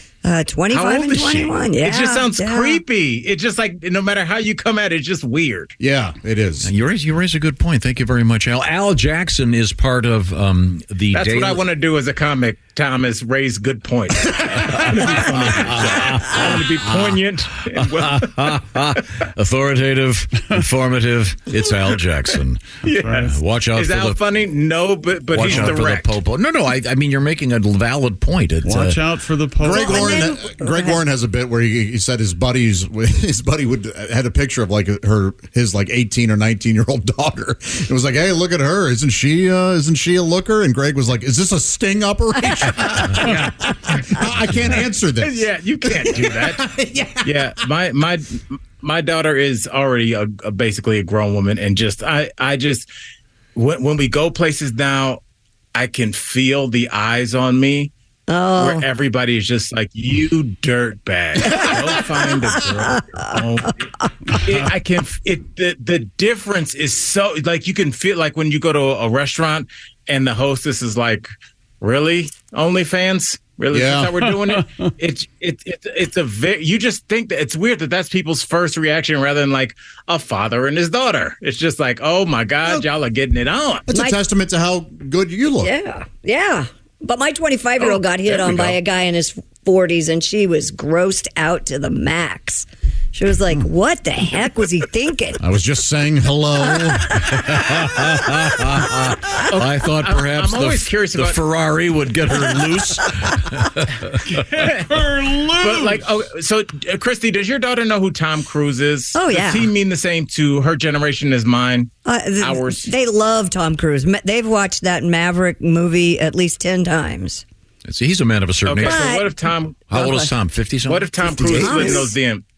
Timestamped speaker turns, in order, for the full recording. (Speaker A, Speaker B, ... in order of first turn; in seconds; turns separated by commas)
Speaker A: 0.2-2.8, Speaker B: 0.7-5.7, Speaker C: 5.8-6.7, Speaker D: 6.6-11.6, Speaker B: 11.1-18.6, Speaker D: 15.2-17.1, Speaker D: 17.7-22.6, Speaker B: 22.8-26.1, Speaker E: 22.9-23.3, Speaker D: 23.2-24.2, Speaker D: 25.3-29.0, Speaker E: 28.6-30.2, Speaker C: 29.6-47.5, Speaker A: 29.7-31.0, Speaker B: 43.1-46.6, Speaker B: 47.2-52.9, Speaker B: 53.5-55.2, Speaker B: 55.7-57.9, Speaker A: 58.3-58.8, Speaker B: 58.5-83.9, Speaker C: 73.7-74.2, Speaker E: 74.6-74.9, Speaker C: 83.9-85.7, Speaker A: 83.9-84.2, Speaker A: 85.6-95.4, Speaker B: 88.3-88.8, Speaker C: 95.4-97.2, Speaker D: 97.2-104.2, Speaker B: 99.5-101.4, Speaker E: 104.4-106.0, Speaker B: 105.6-112.9, Speaker A: 109.1-109.7, Speaker A: 112.0-117.4, Speaker D: 117.8-119.1, Speaker B: 118.7-119.8, Speaker A: 118.8-119.3, Speaker D: 119.9-121.8, Speaker A: 119.9-120.3, Speaker B: 120.9-122.4, Speaker A: 121.4-122.1, Speaker C: 121.5-122.0